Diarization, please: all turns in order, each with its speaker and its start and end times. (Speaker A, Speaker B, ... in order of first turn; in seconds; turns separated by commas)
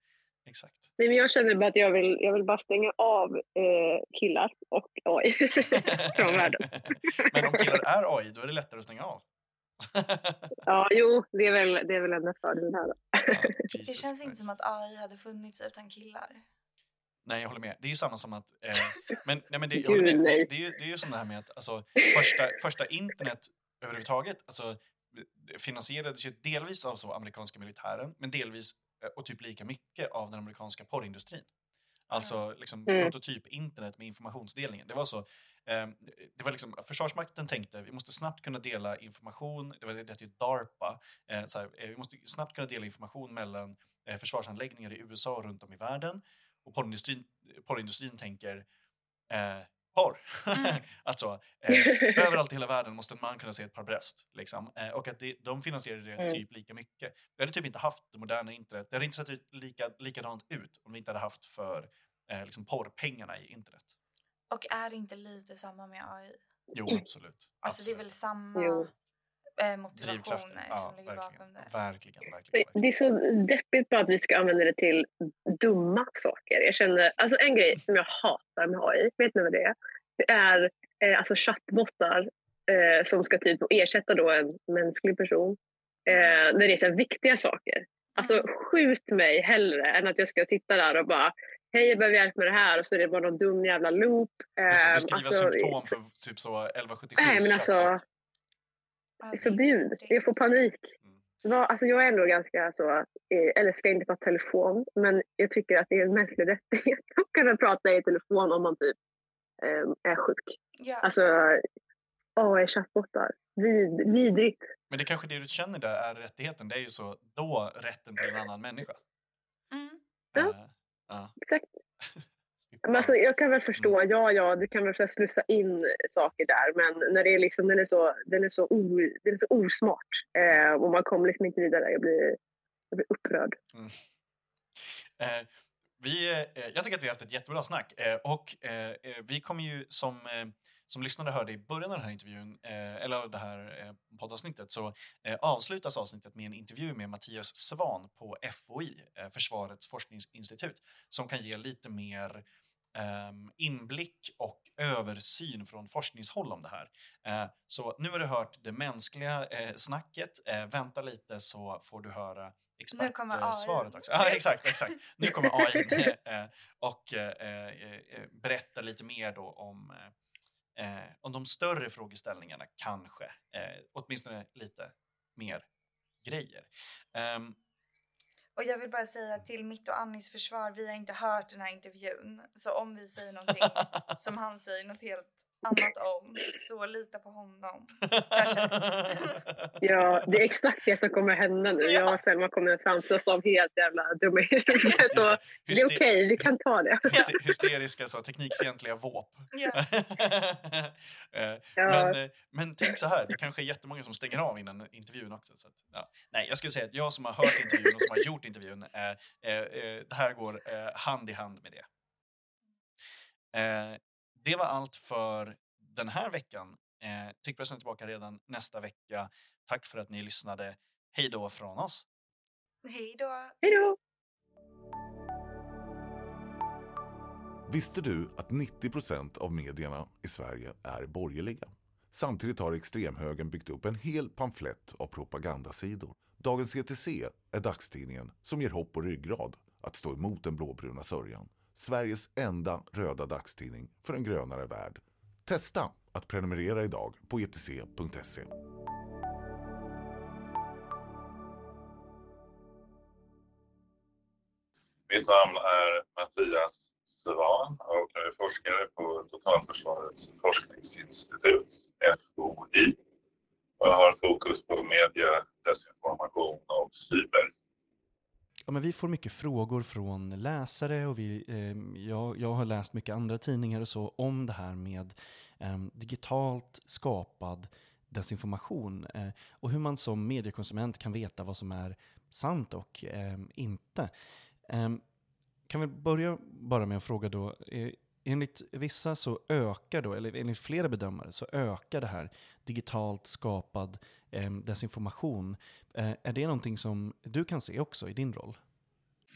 Speaker A: 0.5-0.9, Speaker B: 1.0-7.8, Speaker A: 5.7-9.2, Speaker A: 9.8-10.6, Speaker B: 10.6-13.4, Speaker A: 13.3-14.5, Speaker C: 13.8-16.4, Speaker A: 17.2-31.5, Speaker B: 19.7-20.5, Speaker A: 32.1-48.6, Speaker C: 32.1-32.4, Speaker B: 32.9-33.1, Speaker A: 49.3-63.9, Speaker C: 50.5-50.8, Speaker B: 51.7-52.1, Speaker C: 64.5-66.4, Speaker A: 66.7-68.0, Speaker C: 67.6-68.9, Speaker B: 68.5-68.9, Speaker C: 69.6-71.7, Speaker A: 70.0-72.8, Speaker B: 72.5-95.8, Speaker C: 86.1-86.4, Speaker C: 88.2-88.5, Speaker A: 94.7-98.0, Speaker B: 97.2-98.0, Speaker C: 99.2-100.5, Speaker B: 99.4-100.9, Speaker B: 101.4-108.9, Speaker B: 109.6-111.6, Speaker C: 110.8-111.1, Speaker B: 112.4-114.6, Speaker A: 114.9-119.0, Speaker C: 119.7-120.0, Speaker A: 120.3-121.3, Speaker B: 121.4-121.7, Speaker A: 122.7-123.2, Speaker B: 122.8-132.4, Speaker B: 132.9-133.5, Speaker A: 133.7-134.0, Speaker A: 134.8-170.1, Speaker C: 162.9-165.0, Speaker A: 170.8-175.7, Speaker A: 176.2-177.6, Speaker C: 178.6-189.4, Speaker A: 188.1-190.4, Speaker B: 189.8-197.2, Speaker C: 191.8-192.2, Speaker A: 195.1-196.4, Speaker A: 197.0-211.8, Speaker C: 199.5-199.8, Speaker B: 201.8-202.2, Speaker A: 213.5-222.1, Speaker C: 222.8-223.6, Speaker B: 223.6-224.0, Speaker D: 227.7-248.5, Speaker E: 255.1-262.9, Speaker E: 263.8-267.5, Speaker A: 268.7-284.1, Speaker A: 284.6-285.0, Speaker A: 285.7-298.6